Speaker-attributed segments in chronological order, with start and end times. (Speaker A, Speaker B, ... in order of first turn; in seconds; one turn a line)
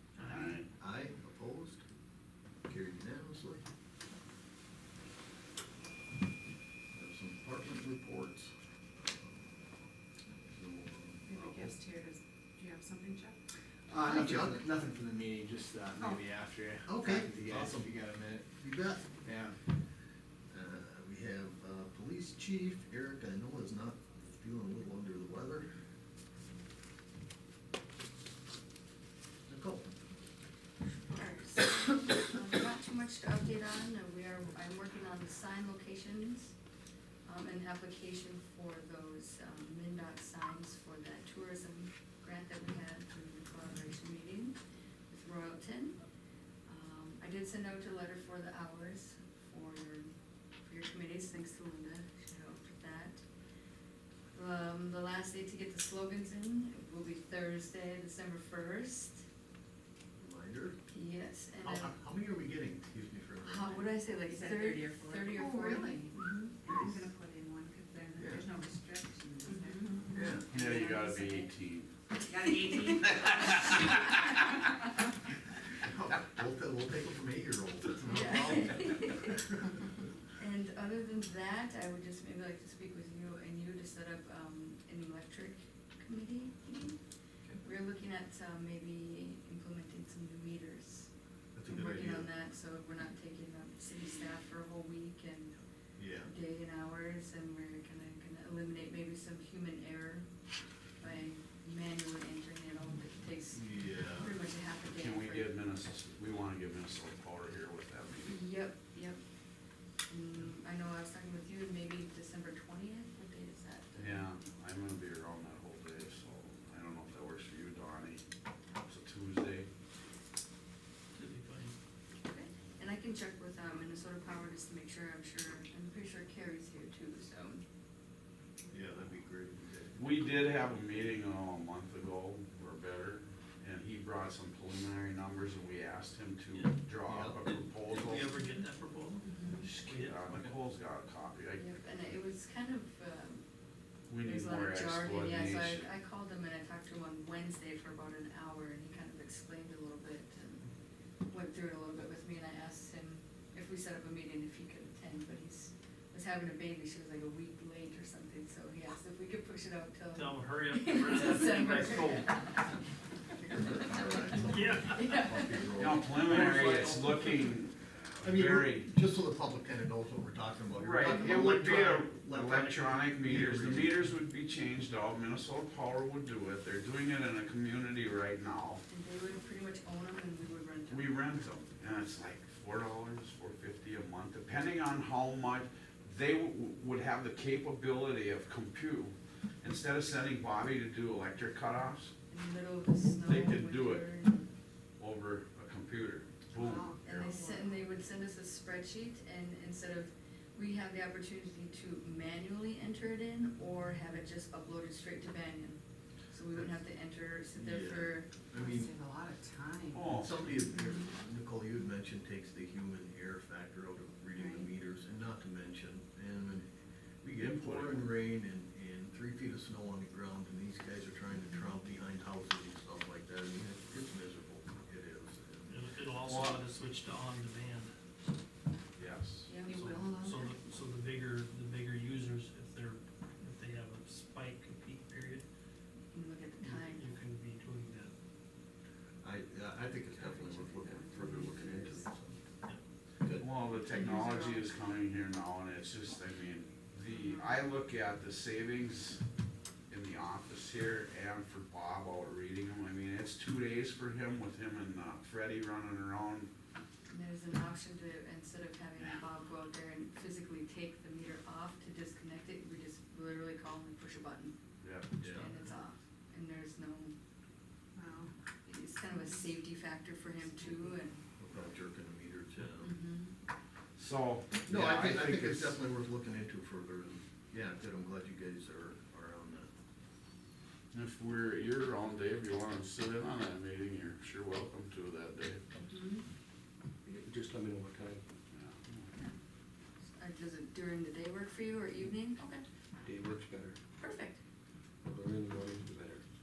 Speaker A: 0.2-0.6
Speaker B: 0.2-0.6
Speaker C: 0.7-1.8
Speaker C: 2.7-3.6
Speaker C: 6.9-9.5
Speaker C: 10.5-11.8
Speaker D: 11.2-13.4
Speaker E: 13.9-19.6
Speaker C: 14.0-14.6
Speaker C: 16.9-17.9
Speaker C: 18.6-19.1
Speaker C: 20.5-25.7
Speaker C: 29.5-29.9
Speaker F: 30.8-36.5
Speaker F: 37.3-44.6
Speaker F: 45.1-46.0
Speaker F: 46.7-50.1
Speaker F: 50.6-53.2
Speaker F: 54.4-59.2
Speaker C: 60.2-60.8
Speaker F: 60.9-62.0
Speaker C: 61.6-63.9
Speaker F: 63.5-66.6
Speaker D: 64.3-71.5
Speaker C: 66.7-67.1
Speaker C: 68.2-68.5
Speaker F: 69.5-70.4
Speaker C: 70.1-70.5
Speaker B: 70.5-71.9
Speaker D: 72.2-74.6
Speaker B: 72.5-74.3
Speaker C: 75.8-79.4
Speaker F: 78.1-79.4
Speaker F: 80.4-87.0
Speaker F: 87.6-91.1
Speaker C: 91.5-92.3
Speaker F: 91.7-95.5
Speaker C: 96.0-96.3
Speaker F: 96.2-100.3
Speaker F: 101.0-105.5
Speaker C: 103.5-104.3
Speaker B: 104.9-108.4
Speaker F: 108.2-109.2
Speaker F: 110.1-114.3
Speaker B: 114.0-118.2
Speaker B: 118.8-119.7
Speaker A: 121.1-121.8
Speaker F: 122.2-127.6
Speaker C: 128.7-130.2
Speaker B: 129.9-138.4
Speaker C: 137.1-137.4
Speaker A: 137.4-140.5
Speaker F: 139.2-139.7
Speaker B: 139.5-141.7
Speaker F: 141.6-143.4
Speaker B: 144.1-145.9
Speaker F: 144.2-150.7
Speaker F: 151.3-162.8
Speaker A: 160.1-162.3
Speaker C: 163.4-167.3
Speaker F: 164.0-165.9
Speaker A: 164.4-165.2
Speaker B: 165.8-168.9
Speaker C: 168.2-174.1
Speaker B: 170.7-178.8
Speaker F: 171.1-171.4
Speaker F: 178.9-181.1
Speaker B: 180.9-192.1
Speaker F: 192.3-194.5
Speaker B: 193.2-194.1
Speaker B: 195.0-197.3
Speaker D: 196.5-197.9
Speaker F: 197.0-205.8
Speaker F: 206.3-208.3
Speaker C: 206.5-206.8
Speaker C: 207.5-208.9
Speaker D: 208.5-210.1
Speaker B: 209.9-210.4
Speaker C: 210.1-216.7
Speaker D: 214.4-214.7
Speaker C: 217.2-225.7
Speaker B: 217.4-218.1
Speaker F: 221.3-221.6
Speaker A: 225.7-227.9
Speaker B: 226.2-226.6
Speaker B: 228.9-229.6
Speaker F: 229.4-230.0
Speaker D: 229.6-230.5
Speaker A: 229.7-235.4
Speaker F: 236.1-237.1
Speaker A: 236.6-238.1
Speaker C: 239.2-242.4
Speaker D: 241.2-241.6
Speaker F: 241.2-241.6
Speaker B: 243.4-249.2
Speaker F: 243.9-244.6
Speaker B: 249.9-256.5
Speaker F: 257.1-264.6
Speaker B: 264.8-265.3
Speaker C: 265.2-265.5
Speaker F: 265.2-267.1
Speaker D: 267.9-268.3
Speaker F: 268.6-271.2
Speaker C: 271.4-272.9
Speaker F: 272.8-273.3
Speaker B: 274.0-275.8
Speaker C: 274.7-279.7
Speaker B: 280.9-285.6
Speaker F: 285.9-286.2
Speaker G: 287.1-288.2
Speaker B: 288.5-289.1
Speaker F: 290.1-292.6
Speaker G: 293.0-293.8
Speaker F: 294.0-294.4
Speaker G: 295.1-296.2